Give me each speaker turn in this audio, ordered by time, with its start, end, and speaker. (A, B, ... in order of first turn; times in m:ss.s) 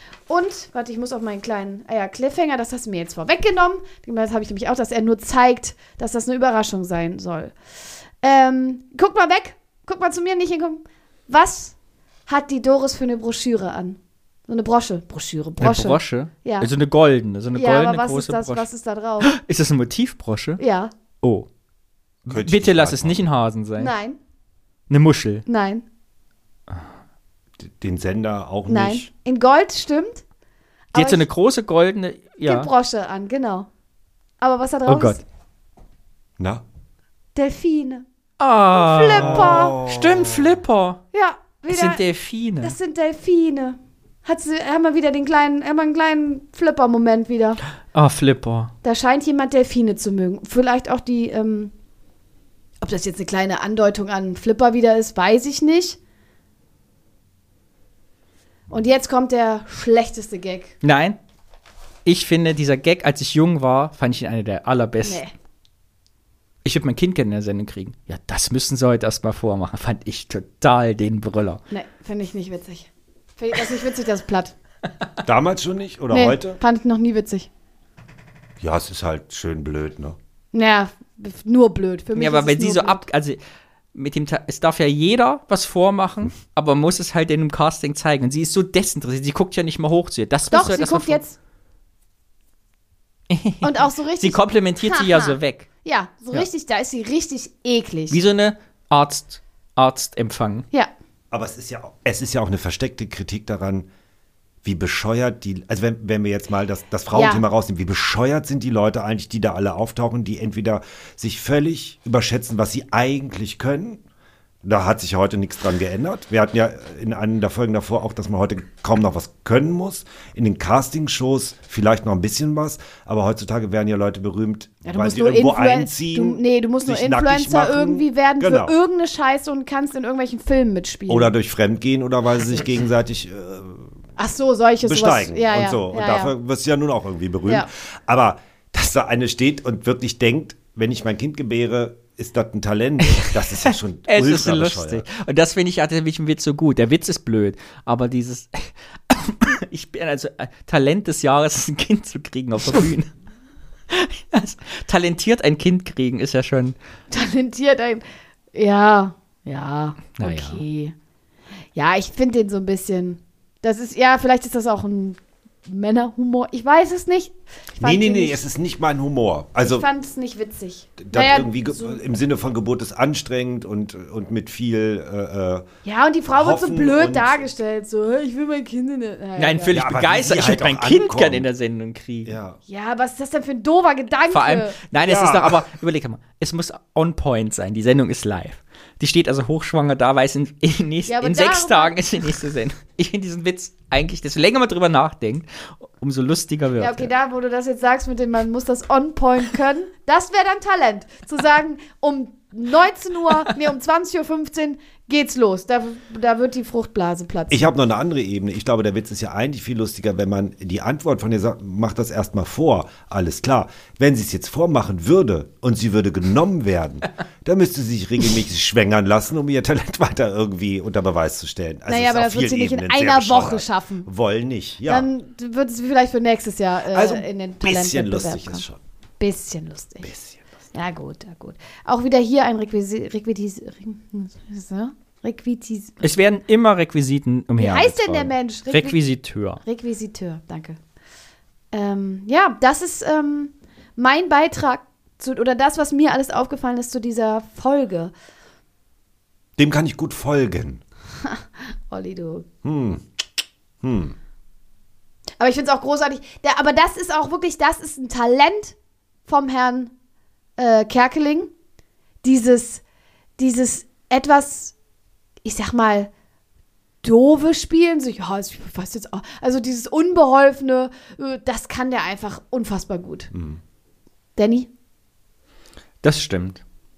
0:00.3-0:07.5 A
0:08.2-0:11.7 A
0:12.3-0:16.7 A
0:15.6-0:18.7 B
0:17.5-0:19.3 A
0:19.2-0:20.6 B
0:20.6-0:20.9 A
0:21.2-0:21.5 B
0:22.2-0:23.2 C
0:22.3-0:23.9 B
0:23.8-0:24.2 A
0:24.9-0:25.4 B
0:25.5-0:25.8 A
0:27.6-0:29.1 C
0:28.7-0:30.2 A
0:30.9-0:31.2 A
0:30.9-0:32.7 B
0:32.4-0:33.7 A
0:34.4-0:35.2 A
0:34.8-0:35.2 B
0:36.4-0:36.6 C
0:37.3-0:38.0 A
0:38.4-0:41.0 B
0:38.7-0:39.8 A
0:39.2-0:40.5 C
0:41.1-0:42.0 A
0:41.7-0:42.8 B
0:42.6-0:47.6 A
0:47.9-0:48.7 B
0:48.8-0:51.7 A
0:52.8-0:56.0 A
0:58.7-1:00.7 A
1:00.8-1:01.2 B
1:02.0-1:05.2 B
1:05.0-1:05.3 A
1:06.6-1:11.6 B
1:11.7-1:14.5 A
1:15.2-1:16.6 C
1:16.1-1:17.5 A
1:18.6-1:20.2 C
1:20.5-1:23.0 A
1:22.1-1:23.4 B
1:23.9-1:31.2 B
1:30.5-1:31.4 A
1:33.3-1:35.7 B
1:33.6-1:38.2 A
1:38.1-1:40.7 B
1:41.3-1:43.9 C
1:44.6-1:54.0 C
1:47.1-1:47.4 A
1:54.6-2:08.7 C
2:04.8-2:11.3 A
2:11.1-2:13.9 C
2:14.2-2:16.3 A
2:14.8-2:25.0 C
2:23.2-2:33.1 B
2:33.9-2:36.8 B
2:37.1-2:40.9 A
2:40.2-2:40.6 B
2:41.7-2:48.4 A
2:47.8-2:49.8 C
2:49.6-2:52.0 A
2:51.0-2:55.7 C
2:55.8-2:59.8 A
2:56.3-2:57.5 C
2:59.4-3:02.3 B
2:59.7-3:01.5 C
3:02.2-3:02.6 C
3:02.7-3:04.8 A
3:04.3-3:17.1 B
3:05.0-3:05.6 C
3:11.1-3:12.0 A
3:16.8-3:27.7 A
3:27.5-3:45.1 C
3:41.9-3:44.1 A
3:44.8-3:48.6 A
3:46.9-3:48.8 C
3:49.2-3:50.1 A
3:50.7-3:56.0 A
3:56.0-3:59.6 B
3:57.6-3:59.0 A
3:59.6-4:00.8 A
4:01.7-4:08.1 A
4:09.6-4:10.8 C
4:11.2-4:12.5 A
4:12.6-4:13.0 C
4:13.8-4:14.2 C
4:15.4-4:18.7 A
4:19.3-4:19.9 A
4:20.6-4:21.5 A
4:22.2-4:22.8 A
4:23.4-4:24.7 A
4:25.4-4:26.1 A
4:27.0-4:33.3 A
4:33.3-4:33.6 C
4:34.4-4:34.7 A
4:36.0-4:36.6 B